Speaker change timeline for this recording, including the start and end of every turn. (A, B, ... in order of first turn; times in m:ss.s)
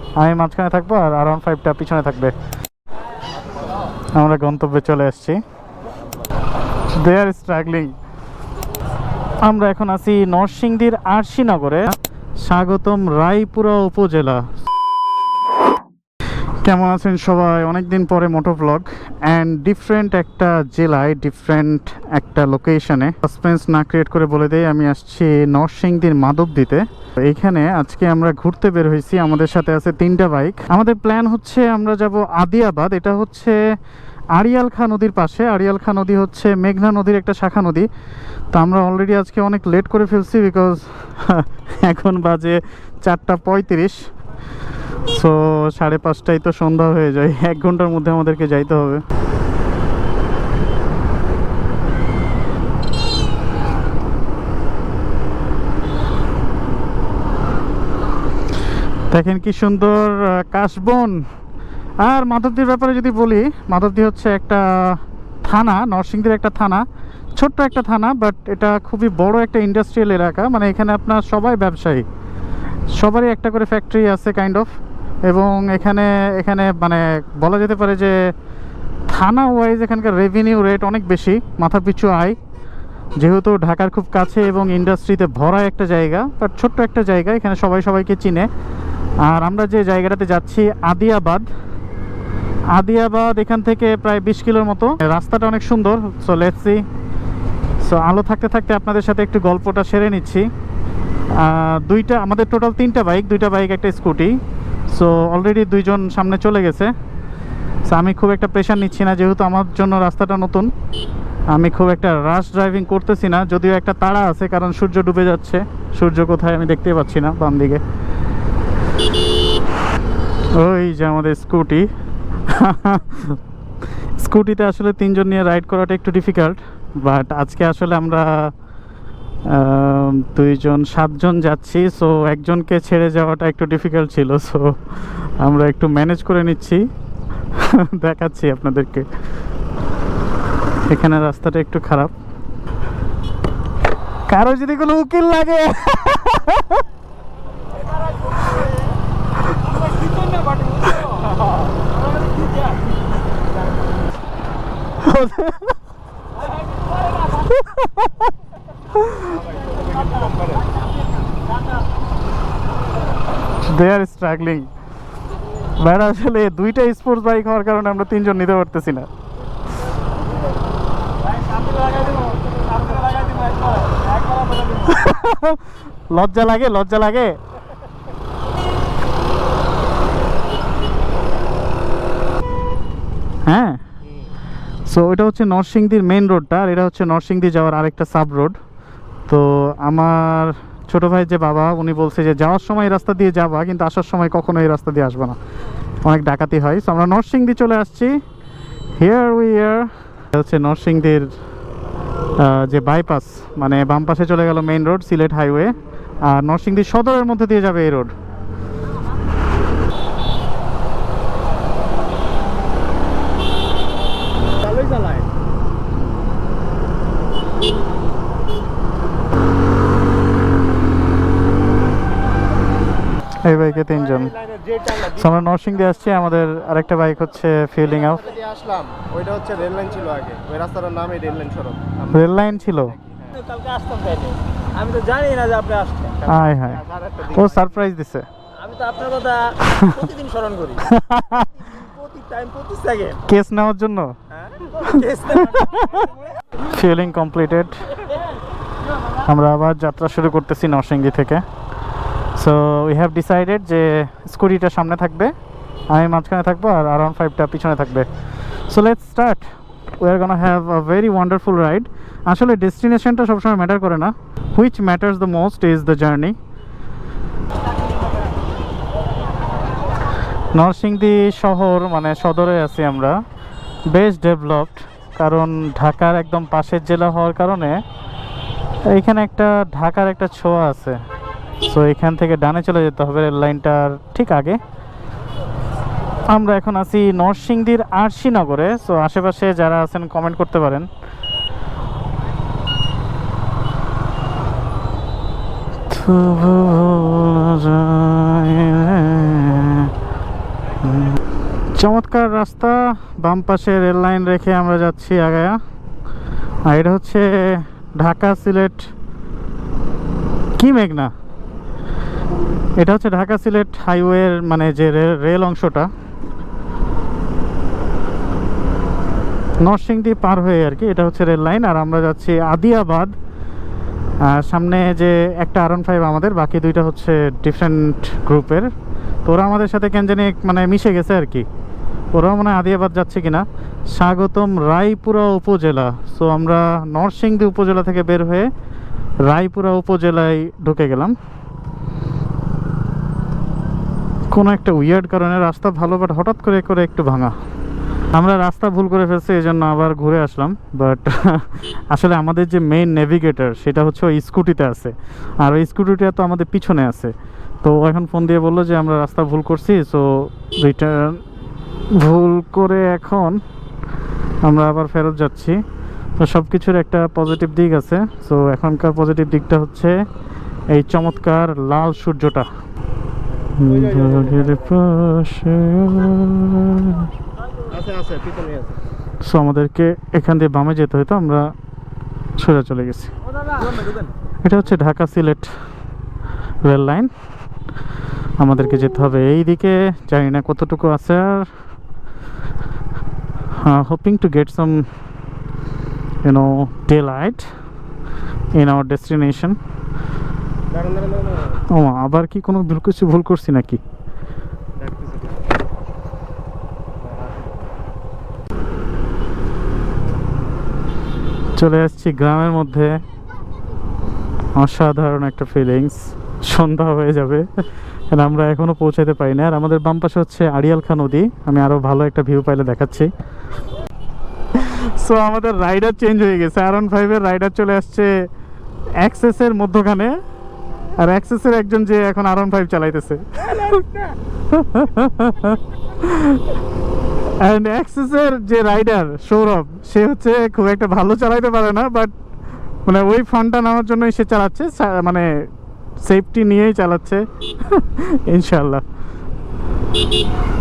0:00.2-0:02.4 A
0:04.2-0:05.4 A
0:06.9-0:08.0 A
0:09.4-0:14.5 A
0:16.6-0:33.6 A
0:34.4-0:37.9 A
0:38.5-0:44.1 A
0:45.1-0:49.0 A
0:59.1-1:01.2 A
1:02.0-1:06.8 A
1:07.4-1:12.0 A
1:13.0-1:14.7 A
1:15.3-1:18.2 A
1:19.1-1:22.4 A
1:23.2-1:28.5 A
1:29.2-1:31.5 A
1:32.8-1:36.8 A
1:37.8-1:40.5 A
1:41.4-1:44.4 A
1:44.9-1:46.9 A
1:47.9-1:50.7 A
1:51.5-1:57.8 A
2:00.5-2:01.9 A
2:02.5-2:03.4 A
2:04.2-2:08.5 A
2:09.5-2:16.8 A
2:17.6-2:19.1 A
2:20.9-2:22.1 A
2:24.3-2:26.8 A
2:35.0-2:35.8 A
2:37.5-2:38.1 A
2:39.0-2:39.3 A
2:43.7-2:44.7 A
2:45.8-2:49.1 A
2:51.5-2:54.7 B
2:54.8-2:57.4 A
3:03.5-3:03.8 A
3:04.9-3:08.6 A
3:09.3-3:15.4 A
3:16.0-3:18.2 A
3:19.0-3:21.3 A
3:22.4-3:28.1 A
3:34.6-3:35.3 B
3:43.4-3:44.4 A
3:44.9-3:48.4 A
3:48.1-3:52.1 C
3:52.1-3:53.0 A
3:53.3-3:56.2 B
3:56.3-3:58.3 A
3:56.3-3:57.4 C
3:58.6-4:00.9 B
4:00.8-4:01.5 A
4:01.5-4:03.3 B
4:03.3-4:04.2 A
4:04.3-4:05.6 B
4:04.8-4:08.0 A
4:09.2-4:11.4 A
4:12.4-4:15.3 A
4:15.9-4:18.1 A
4:18.7-4:19.5 A
4:20.0-4:26.4 A
4:30.6-4:33.2 A
4:33.9-4:37.8 A
4:38.9-4:41.0 A
4:41.6-4:44.6 A
4:46.3-4:50.9 A
4:55.9-4:59.9 A
5:00.8-5:01.2 A
5:01.8-5:05.6 A
5:06.7-5:08.9 A
5:10.6-5:11.1 A
5:12.8-5:15.9 A
5:19.6-5:23.2 A
5:24.2-5:28.7 A
5:29.2-5:31.5 A
5:32.1-5:38.5 A
5:39.3-5:41.2 A
5:44.3-5:47.4 A
5:48.1-6:01.2 A
6:01.9-6:03.4 A
6:04.4-6:05.6 A
6:06.2-6:10.0 A
6:10.7-6:12.5 A
6:13.5-6:17.1 A
6:17.7-6:18.6 C
6:17.9-6:18.7 B
6:19.2-6:21.5 A
6:22.4-6:23.1 A
6:24.4-6:25.5 A
6:26.6-6:27.1 A
6:28.4-6:31.5 A
6:33.6-6:34.9 A
6:36.2-6:37.5 A
6:38.6-6:39.6 A
6:40.9-6:41.2 C
6:41.7-6:43.8 A
6:51.6-6:53.0 A
6:54.6-7:03.1 A
7:04.5-7:08.1 A
7:09.0-7:10.2 A
7:11.0-7:13.8 A
7:13.5-7:14.1 B
7:14.5-7:16.4 A
7:17.4-7:22.1 A
7:22.9-7:25.5 A
7:26.0-7:28.8 A